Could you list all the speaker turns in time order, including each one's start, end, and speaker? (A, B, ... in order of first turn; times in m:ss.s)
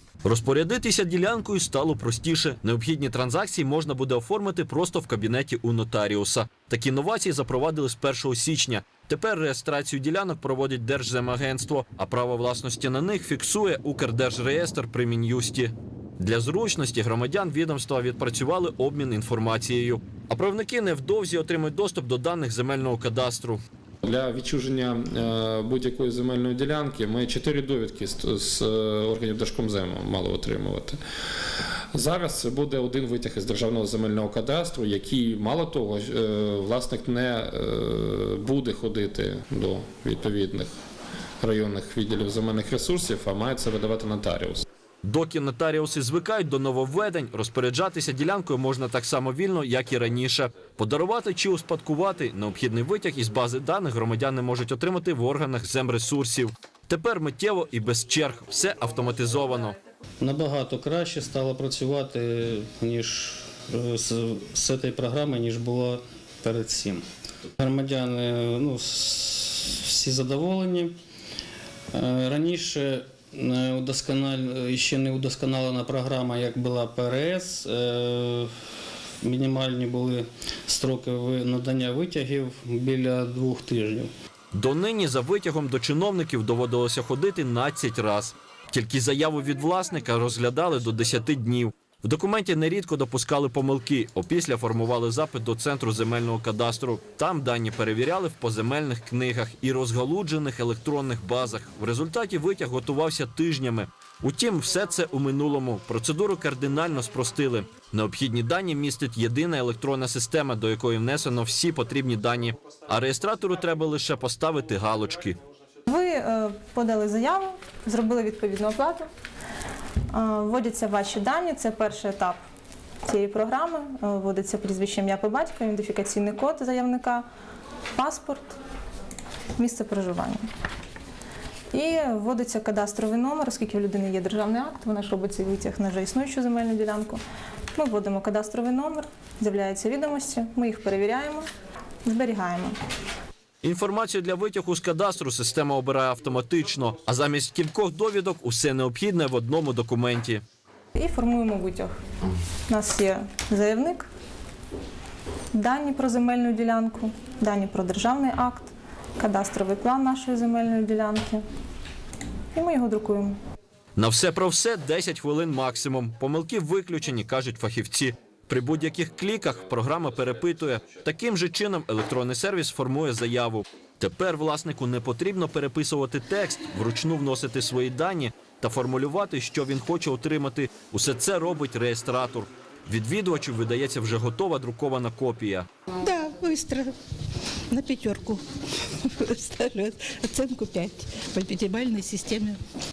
0:00.2-0:23.6 A
0:24.0-0:31.0 B
0:31.9-0:40.7 B
0:41.4-0:44.6 B
0:45.0-0:59.8 A
1:00.2-1:07.0 C
1:07.6-1:10.9 C
1:11.9-1:18.5 C
1:19.2-1:24.1 C
1:24.5-1:55.4 A
1:55.9-1:59.0 D
2:00.1-2:02.4 D
2:03.0-2:07.2 D
2:07.9-2:08.6 D
2:09.6-2:10.4 D
2:11.7-2:17.2 D
2:17.7-2:21.5 D
2:22.0-2:22.8 D
2:23.6-2:30.4 A
2:30.9-2:31.9 D
2:32.7-2:34.1 D
2:35.5-2:41.4 D
2:42.5-2:43.4 D
2:44.0-3:05.7 A
3:06.0-3:06.9 E
3:07.7-3:08.4 E
3:09.0-3:12.6 E